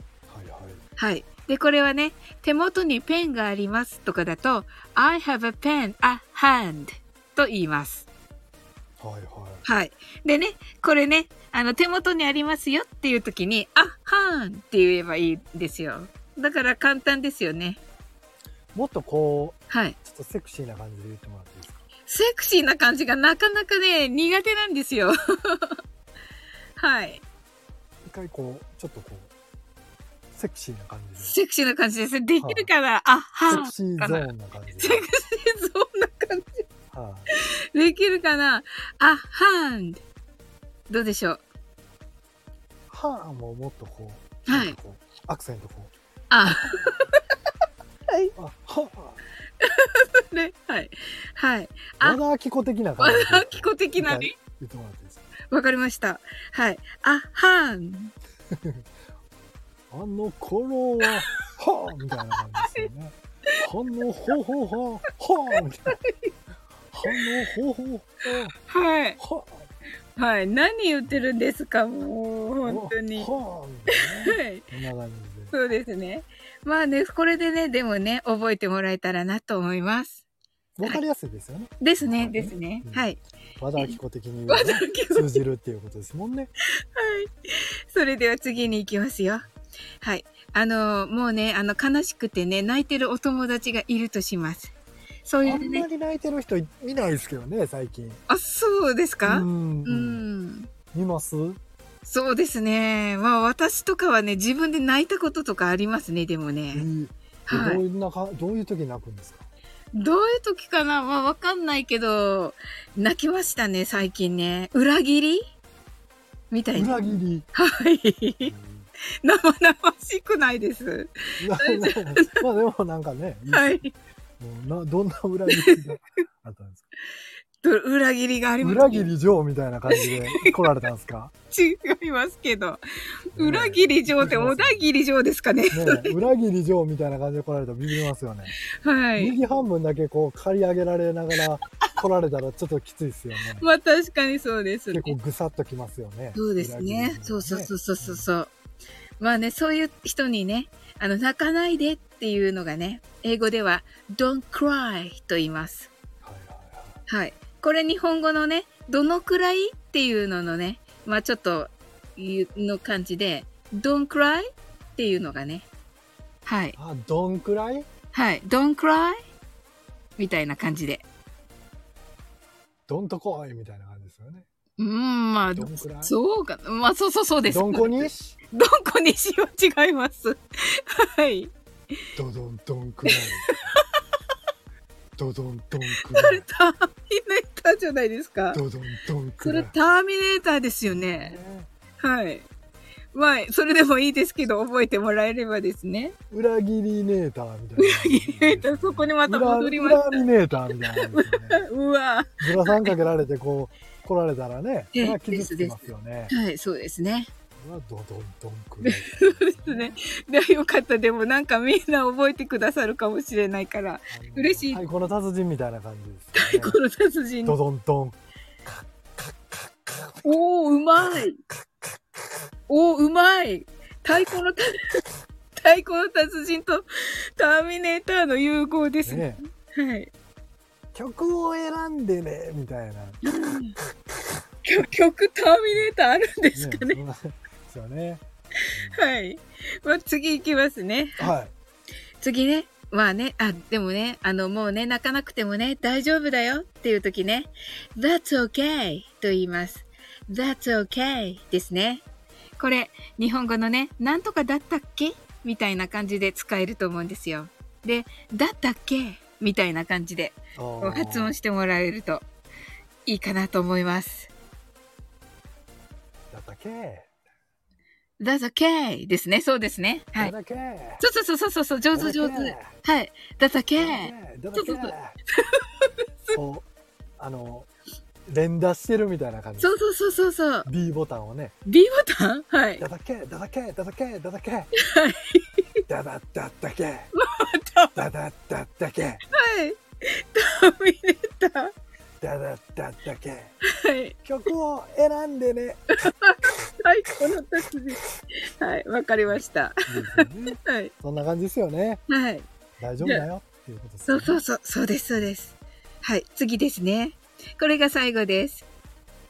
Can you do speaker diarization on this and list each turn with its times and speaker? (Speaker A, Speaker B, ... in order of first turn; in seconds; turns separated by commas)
Speaker A: 0.3-0.8, Speaker B: 1.0-8.1, Speaker A: 9.0-9.6, Speaker B: 9.6-17.8, Speaker A: 18.7-21.9, Speaker B: 19.7-20.0, Speaker B: 22.1-25.8, Speaker B: 26.8-27.2, Speaker A: 28.0-29.3, Speaker A: 30.3-31.4, Speaker B: 31.2-34.3, Speaker A: 32.4-32.7, Speaker A: 33.5-35.1, Speaker B: 34.8-36.7, Speaker A: 36.9-37.3, Speaker B: 37.3-40.0, Speaker B: 40.9-41.4, Speaker A: 42.9-45.9, Speaker B: 44.5-44.8, Speaker B: 46.3-47.2, Speaker A: 46.5-47.0, Speaker A: 48.4-49.2, Speaker B: 49.6-52.2, Speaker A: 52.0-55.3, Speaker B: 53.0-54.3, Speaker B: 55.5-58.1, Speaker A: 58.5-58.8, Speaker A: 59.9-66.0, Speaker B: 62.2-62.9, Speaker B: 65.9-66.3, Speaker A: 66.9-68.5, Speaker B: 68.6-69.2, Speaker A: 69.2-69.7, Speaker B: 70.2-73.3, Speaker A: 72.6-75.6, Speaker B: 73.9-74.7, Speaker B: 75.5-80.2, Speaker A: 80.8-86.5, Speaker B: 81.8-83.2, Speaker B: 84.5-85.4, Speaker B: 87.0-89.5, Speaker B: 90.0-95.9, Speaker A: 95.4-98.2, Speaker B: 98.3-100.7, Speaker A: 99.2-100.2, Speaker A: 100.9-101.6, Speaker B: 102.0-106.9, Speaker A: 106.7-109.5, Speaker B: 107.5-107.8, Speaker B: 109.9-115.5, Speaker B: 116.5-118.5, Speaker A: 116.8-117.5, Speaker A: 118.4-118.9, Speaker B: 119.2-122.4, Speaker A: 121.4-123.9, Speaker B: 123.5-123.9, Speaker A: 124.4-126.9, Speaker B: 125.5-125.8, Speaker B: 127.6-129.1, Speaker A: 128.6-131.3, Speaker B: 129.9-130.6, Speaker B: 131.5-132.8, Speaker B: 133.3-136.1, Speaker A: 133.3-134.9, Speaker A: 135.7-138.6, Speaker B: 138.8-139.4, Speaker A: 139.2-143.7, Speaker B: 143.6-145.2, Speaker A: 144.9-148.3, Speaker B: 146.4-148.5, Speaker B: 149.2-155.9, Speaker A: 156.2-157.0, Speaker B: 157.1-165.7, Speaker B: 166.5-166.8, Speaker A: 166.8-167.9, Speaker B: 168.1-169.2, Speaker B: 170.2-171.1, Speaker A: 172.9-174.5, Speaker B: 174.8-181.5, Speaker A: 175.5-176.2, Speaker A: 177.5-178.4, Speaker A: 182.2-183.7, Speaker B: 183.1-183.8, Speaker A: 185.2-186.5, Speaker B: 185.9-188.6, Speaker A: 188.5-189.7, Speaker B: 189.4-191.4, Speaker A: 190.8-192.0, Speaker B: 192.0-192.5, Speaker B: 193.1-196.1, Speaker A: 196.3-201.7, Speaker B: 197.8-200.2, Speaker B: 200.9-202.9, Speaker A: 202.4-206.3, Speaker B: 204.9-207.3, Speaker A: 207.6-210.0, Speaker B: 208.8-214.8, Speaker A: 214.1-216.8, Speaker B: 216.4-217.6, Speaker A: 217.4-218.2, Speaker B: 220.2-221.4, Speaker B: 222.7-225.0, Speaker B: 225.6-230.1, Speaker A: 229.1-229.4, Speaker A: 230.9-233.6, Speaker B: 233.2-233.8, Speaker B: 234.7-237.0, Speaker A: 236.5-239.1, Speaker B: 238.9-241.3, Speaker A: 241.2-241.5, Speaker B: 242.2-252.0, Speaker B: 252.6-262.2, Speaker A: 260.6-261.4, Speaker B: 263.1-264.3, Speaker A: 266.3-267.1, Speaker B: 268.2-270.3, Speaker A: 270.2-271.1, Speaker B: 271.0-276.4, Speaker A: 271.9-272.7, Speaker A: 273.8-275.2, Speaker A: 276.3-276.7, Speaker A: 277.2-277.7, Speaker A: 278.3-279.8, Speaker B: 279.6-280.7, Speaker A: 280.7-281.6, Speaker B: 281.7-282.8, Speaker A: 282.8-284.7, Speaker B: 284.8-285.8, Speaker A: 285.9-287.1, Speaker B: 287.1-288.0, Speaker A: 287.9-289.2, Speaker B: 289.3-291.7, Speaker A: 292.2-293.6, Speaker B: 293.7-294.1, Speaker A: 294.2-295.9, Speaker B: 296.0-300.9, Speaker A: 299.3-302.0, Speaker B: 302.1-302.5, Speaker A: 302.8-304.4, Speaker B: 304.1-308.7